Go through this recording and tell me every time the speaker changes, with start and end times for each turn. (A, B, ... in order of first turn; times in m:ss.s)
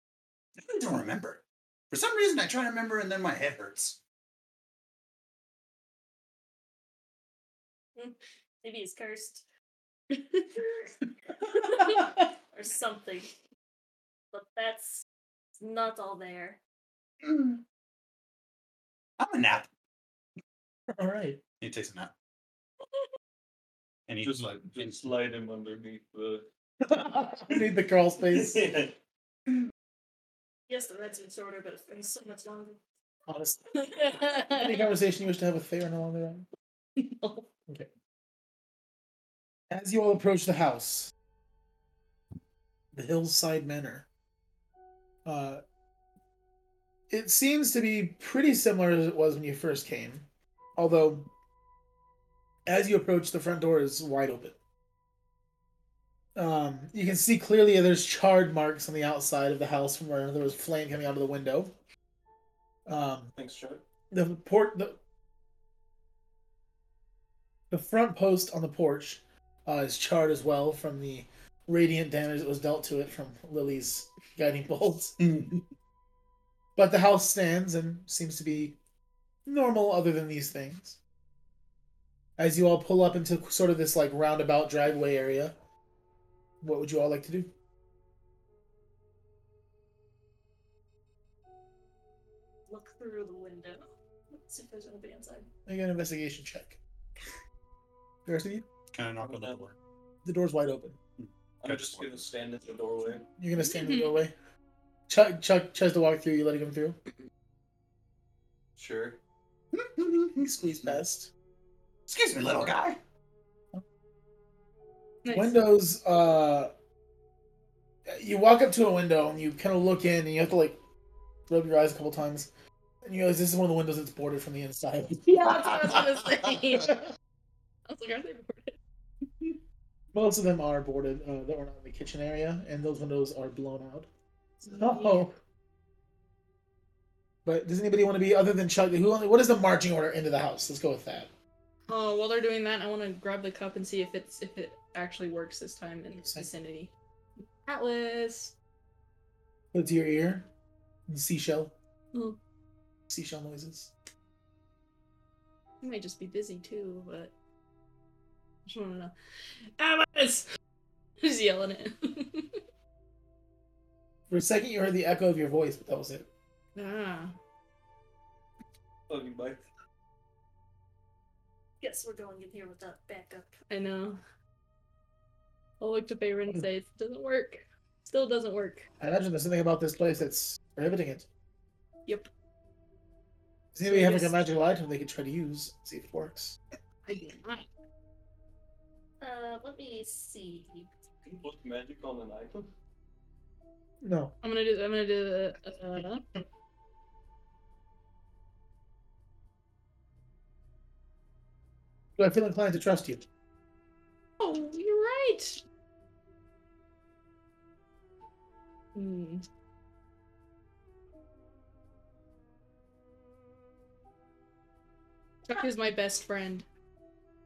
0:00.6-0:04.0 A
0:08.0-0:09.4 B
0:12.5-0:13.3 B
0:14.3-0:15.0 B
0:15.6-0:16.6 B
0:17.2-0:17.6 A
0:19.2-0:19.7 A
0:20.9-0:21.4 C
0:21.6-0:22.1 A
0:24.1-0:25.1 A
0:24.2-0:26.5 D
0:26.8-0:28.6 C
0:28.3-0:28.9 D
0:30.7-0:32.8 B
0:33.3-0:33.8 C
0:33.8-0:34.7 E
0:34.3-0:36.5 C
0:39.7-0:41.1 C
0:42.9-0:44.0 C
0:45.2-0:45.6 C
0:47.1-0:50.2 C
0:50.8-0:51.3 C
0:52.7-0:54.5 C
0:56.4-1:01.7 C
1:02.9-1:03.3 C
1:03.4-1:03.8 D
1:04.1-1:05.0 C
1:07.7-1:15.2 C
1:15.2-1:15.6 A
1:16.8-1:18.8 C
1:19.4-1:21.0 C
1:22.4-1:25.5 C
1:26.6-1:27.5 C
1:32.7-1:35.5 B
1:35.7-1:36.8 C
1:38.2-1:38.6 C
1:38.9-1:39.8 A
1:39.2-1:39.6 D
1:40.2-1:41.0 C
1:41.2-1:42.2 A
1:41.6-1:43.2 D
1:43.4-1:44.3 C
1:43.6-1:44.2 E
1:45.1-1:47.0 C
1:48.8-1:49.2 D
1:49.7-1:50.5 A
1:50.3-1:51.3 C
1:52.1-1:53.0 A
1:55.2-1:55.6 E
1:55.3-1:56.7 C
1:58.1-2:00.8 C
2:01.5-2:02.5 C
2:03.0-2:05.9 C
2:05.2-2:07.0 E
2:07.9-2:08.8 E
2:10.1-2:14.1 C
2:14.6-2:15.3 C
2:14.7-2:15.2 E
2:17.4-2:21.3 C
2:21.9-2:26.9 E
2:26.2-2:26.5 C
2:27.6-2:28.5 E
2:29.7-2:30.5 C
2:31.1-2:31.7 C
2:32.1-2:32.4 E
2:33.1-2:33.9 C
2:35.8-2:37.3 E
2:38.6-2:39.1 E
2:39.8-2:40.4 E
2:41.2-2:42.6 E
2:44.3-2:46.3 C
2:46.8-2:47.3 E
2:49.1-2:49.6 D
2:51.8-2:53.6 B
2:53.7-2:54.2 E
2:55.8-2:58.8 E
2:59.0-3:01.3 C
3:03.7-3:06.6 C
3:03.8-3:04.4 E
3:07.1-3:07.7 E
3:09.2-3:10.9 B
3:11.2-3:12.7 D
3:14.0-3:14.3 C
3:14.4-3:16.2 E
3:22.2-3:23.2 C
3:24.4-3:25.6 E
3:28.9-3:29.4 E
3:35.5-3:36.6 E